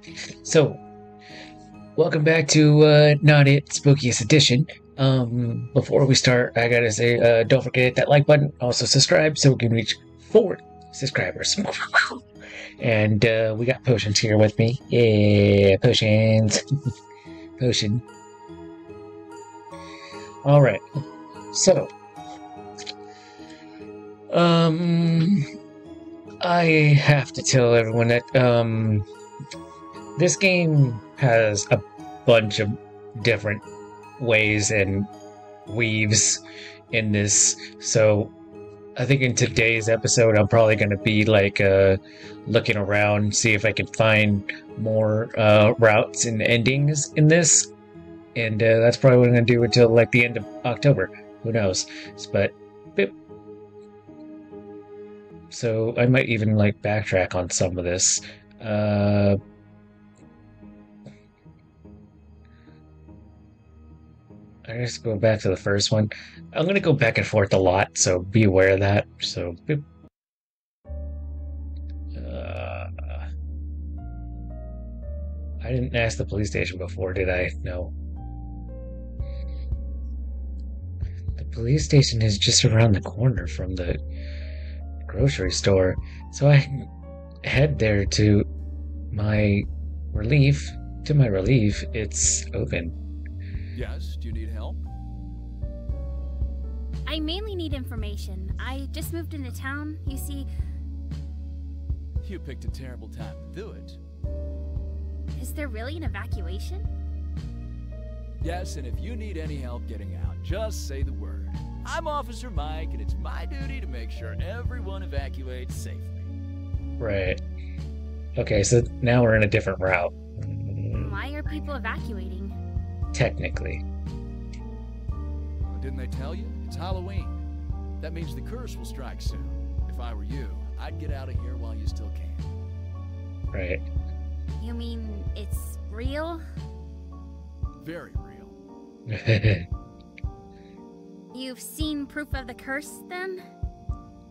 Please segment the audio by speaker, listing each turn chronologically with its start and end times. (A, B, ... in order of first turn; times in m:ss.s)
0:00.4-0:00.8 A
0:02.0-0:12.2 A
0:12.8-0:16.6 A
0:17.6-0:18.0 A
0:20.4-0:20.8 A
0:21.5-0:21.9 A
0:24.3-0:25.4 A
0:26.4-0:29.0 A
0:30.2-0:33.6 A
0:34.2-0:35.1 A
0:35.7-0:38.3 A
0:39.0-0:47.7 A
0:48.4-0:53.1 A
0:55.5-0:59.4 A
1:04.6-1:09.8 A
1:12.1-1:13.2 A
1:15.6-1:17.9 A
1:21.4-1:24.0 A
1:25.1-1:26.9 A
1:27.4-1:28.5 A
1:29.1-1:33.0 A
1:33.7-1:34.8 B
1:37.1-1:40.5 C
1:42.2-1:44.0 B
1:45.4-1:46.9 C
1:48.4-1:56.3 B
1:57.0-1:57.4 A
1:58.4-2:01.2 A
2:01.0-2:02.6 C
2:03.1-2:03.8 A
2:05.6-2:07.4 B
2:08.0-2:12.5 B
2:13.5-2:13.8 A
2:14.6-2:16.4 C
2:17.8-2:18.6 B
2:19.1-2:19.7 A
2:21.3-2:23.4 C